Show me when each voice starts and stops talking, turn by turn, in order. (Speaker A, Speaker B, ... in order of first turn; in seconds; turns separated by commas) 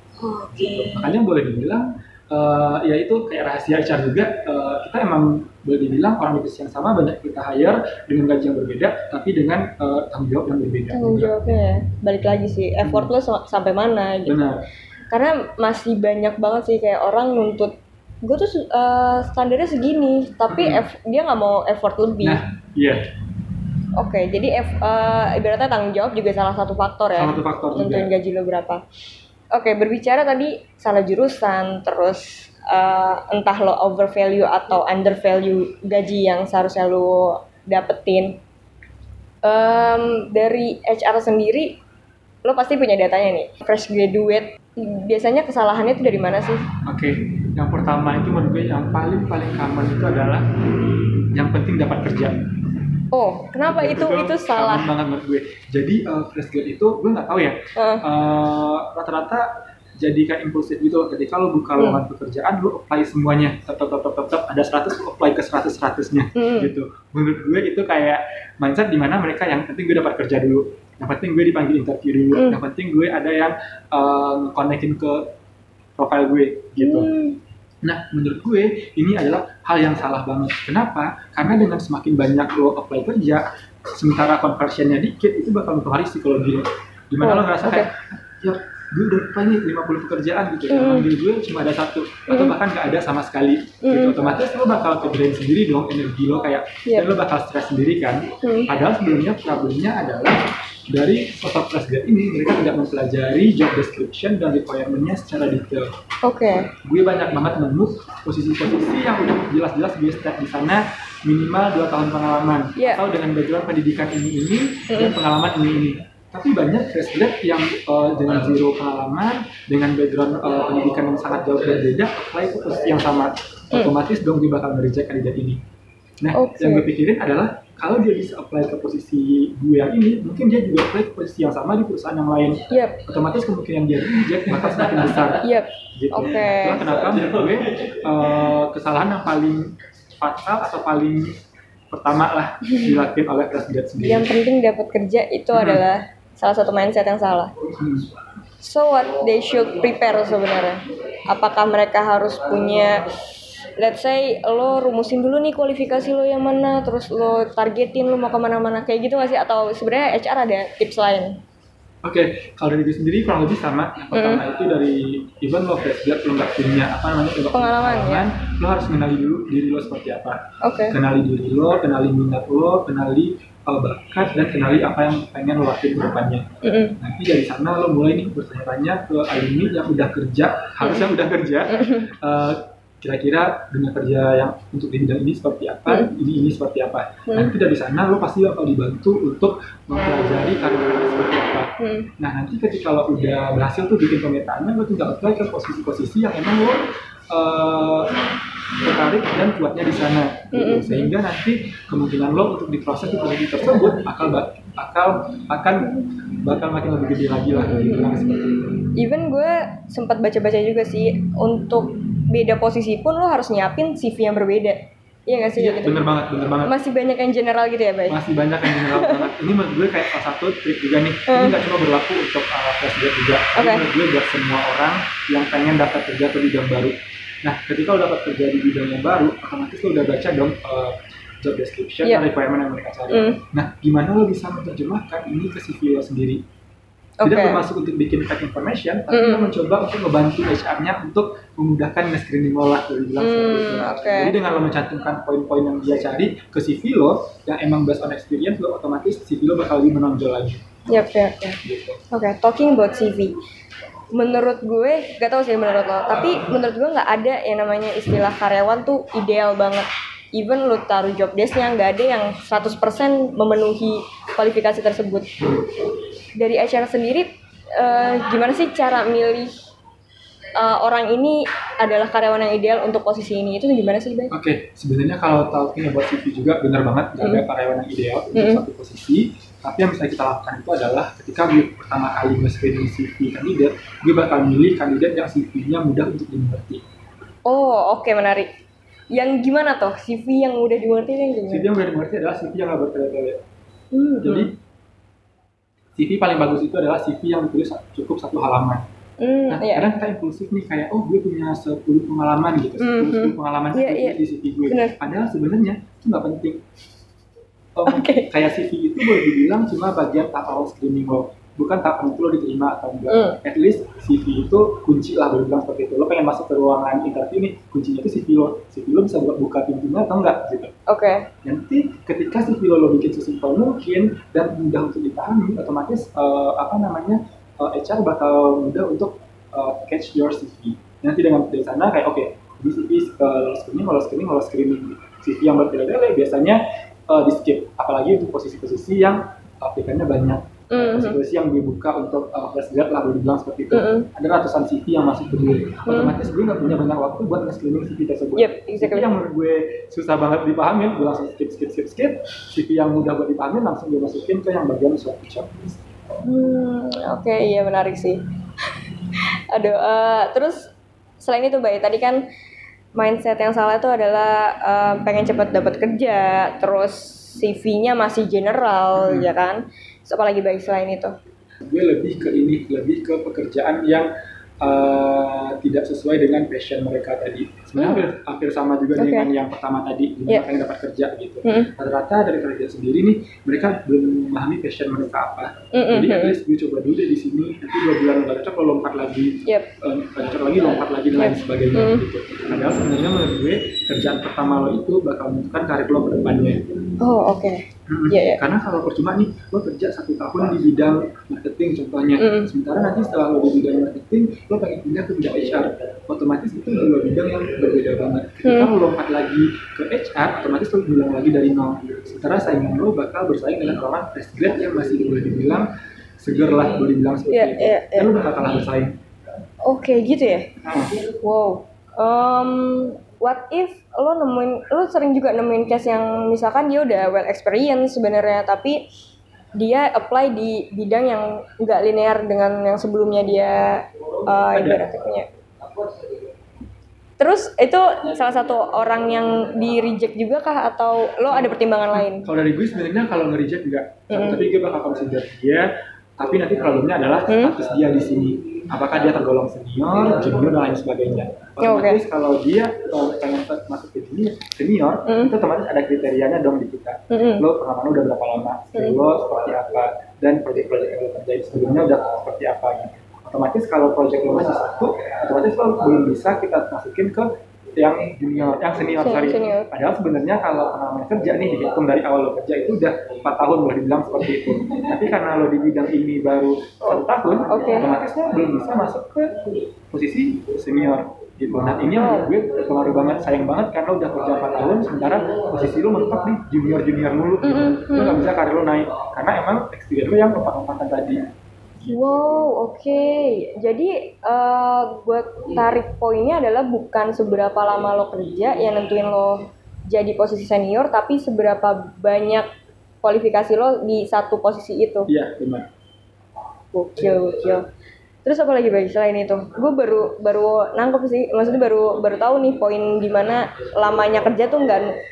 Speaker A: 0.2-1.1, Speaker B: 0.5-11.3, Speaker A: 10.9-14.4, Speaker B: 12.8-13.1, Speaker B: 14.2-14.6, Speaker A: 15.1-22.4, Speaker B: 20.5-20.9, Speaker B: 22.2-23.1, Speaker A: 23.9-28.8, Speaker B: 27.1-28.1, Speaker A: 29.5-38.4, Speaker A: 39.4-41.8, Speaker A: 42.4-46.6, Speaker B: 46.8-52.4, Speaker A: 53.1-54.9, Speaker B: 53.7-59.5, Speaker A: 57.8-58.0, Speaker B: 60.0-75.3, Speaker A: 66.3-66.7, Speaker A: 72.3-72.6, Speaker B: 76.0-77.1, Speaker A: 76.8-77.4, Speaker B: 77.8-105.9, Speaker A: 87.2-87.9, Speaker A: 90.7-91.1, Speaker A: 93.8-94.2, Speaker A: 96.8-97.1, Speaker A: 98.4-98.7, Speaker A: 106.2-106.7, Speaker B: 106.8-125.6, Speaker A: 112.8-113.0, Speaker A: 114.9-115.2, Speaker B: 126.2-141.3, Speaker A: 126.3-126.9, Speaker A: 132.7-133.0, Speaker A: 135.4-136.9, Speaker B: 141.9-144.3, Speaker A: 142.7-142.9, Speaker A: 144.0-147.5, Speaker B: 145.5-145.8, Speaker B: 147.8-148.1, Speaker A: 148.6-161.4, Speaker B: 162.0-176.5, Speaker A: 164.1-164.4, Speaker A: 167.5-168.2, Speaker A: 170.6-170.9, Speaker A: 176.6-177.0, Speaker B: 177.0-198.2, Speaker A: 181.7-182.1, Speaker A: 185.9-186.1, Speaker A: 187.3-187.6, Speaker A: 191.8-192.1, Speaker B: 198.8-208.9, Speaker A: 200.5-201.1, Speaker A: 207.5-208.3, Speaker A: 208.9-216.0, Speaker B: 215.6-216.7, Speaker A: 216.6-219.3, Speaker B: 218.1-236.4, Speaker A: 221.3-221.5, Speaker A: 223.6-223.8, Speaker A: 233.1-233.4, Speaker A: 237.2-237.6, Speaker B: 237.2-250.7, Speaker A: 239.1-239.5, Speaker A: 243.2-244.4, Speaker A: 250.9-251.6, Speaker B: 251.6-252.0, Speaker A: 252.1-253.3, Speaker A: 254.1-265.4, Speaker A: 266.4-269.5, Speaker A: 270.6-274.3, Speaker B: 274.3-286.8, Speaker A: 278.3-278.6, Speaker A: 287.5-288.5, Speaker A: 289.1-291.7, Speaker B: 291.5-293.4, Speaker A: 293.9-294.5, Speaker B: 294.2-294.5, Speaker B: 295.9-298.8, Speaker A: 299.2-299.9, Speaker B: 299.5-306.6, Speaker A: 302.8-304.9, Speaker B: 307.7-320.7, Speaker A: 307.9-308.3, Speaker A: 313.1-313.4, Speaker A: 320.9-321.3, Speaker B: 321.4-355.8, Speaker A: 340.7-341.2, Speaker A: 343.7-344.1, Speaker A: 345.9-346.1, Speaker A: 348.4-349.1, Speaker A: 356.2-358.2, Speaker A: 359.5-362.2, Speaker A: 362.9-371.1, Speaker B: 368.9-369.3, Speaker B: 371.6-374.1, Speaker B: 374.6-396.6, Speaker A: 377.8-378.1, Speaker A: 378.9-379.3, Speaker A: 381.4-381.7, Speaker A: 385.7-386.4, Speaker A: 391.1-392.0, Speaker A: 397.0-398.4, Speaker B: 397.9-415.7, Speaker A: 402.2-402.5, Speaker A: 408.4-408.7, Speaker B: 416.2-418.9, Speaker A: 417.3-418.1, Speaker A: 419.6-428.8, Speaker B: 420.6-420.9, Speaker A: 429.6-435.3, Speaker B: 434.5-434.8, Speaker A: 437.2-442.3, Speaker B: 441.3-491.3, Speaker A: 444.1-444.4, Speaker A: 447.3-447.6, Speaker A: 451.6-452.0, Speaker A: 455.1-455.3, Speaker A: 457.1-457.4, Speaker A: 469.0-469.7, Speaker A: 476.8-477.9, Speaker A: 481.9-482.3, Speaker A: 487.4-488.2, Speaker A: 491.8-502.5, Speaker A: 503.0-505.1, Speaker B: 505.1-505.7, Speaker A: 506.7-507.6, Speaker A: 508.2-514.9